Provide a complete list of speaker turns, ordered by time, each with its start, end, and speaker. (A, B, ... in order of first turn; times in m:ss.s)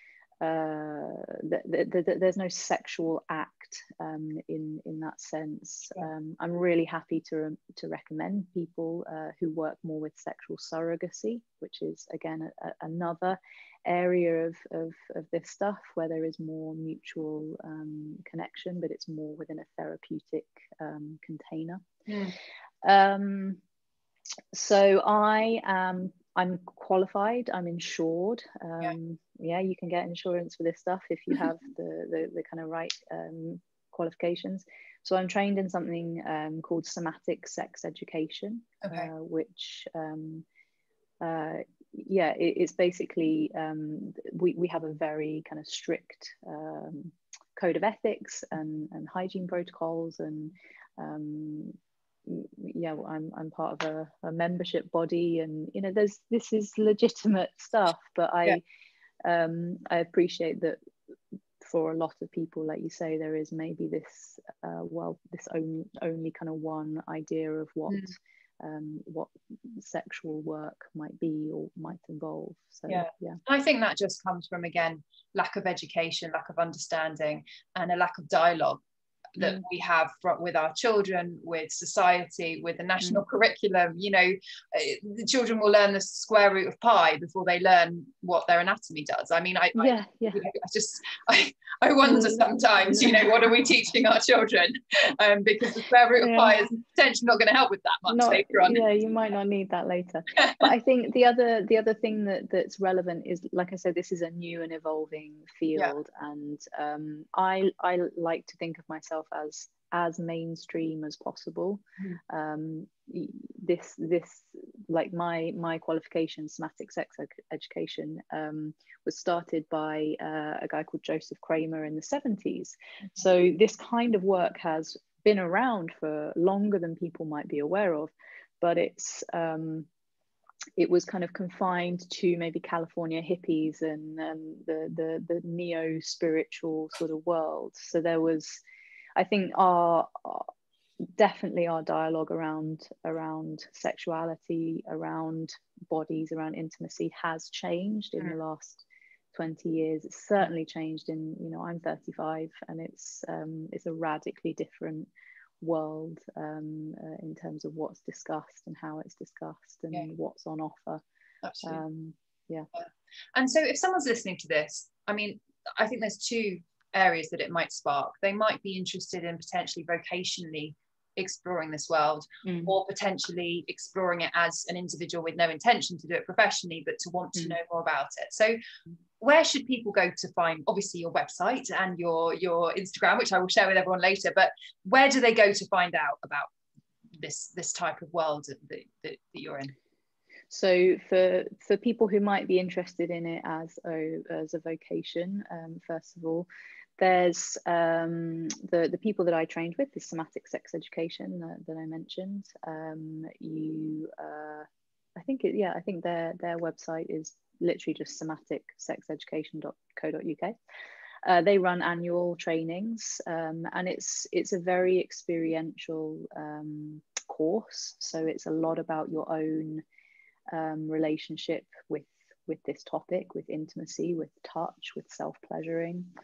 0:00.4-0:21.8 A
0:22.1-0:22.4 B
0:22.8-0:23.6 A
0:24.5-0:40.5 A
0:38.8-0:39.1 B
0:41.2-0:58.6 A
0:59.2-1:00.8 A
1:01.6-1:13.4 A
1:07.9-1:08.1 B
1:12.9-1:18.8 B
1:19.4-1:38.8 B
1:29.8-1:30.4 A
1:32.0-1:33.4 A
1:36.2-1:36.6 A
1:38.1-2:09.9 A
1:40.4-1:40.7 B
2:10.8-2:18.6 A
2:19.2-2:20.5 A
2:21.0-2:35.1 A
2:35.6-2:41.0 A
2:41.4-2:41.8 B
2:41.6-2:42.7 A
2:42.7-2:58.6 B
2:52.4-2:52.7 A
2:59.2-3:06.5 B
3:07.2-3:09.7 B
3:10.5-3:16.5 A
3:17.0-3:30.6 A
3:31.2-3:39.8 A
3:40.5-3:46.1 A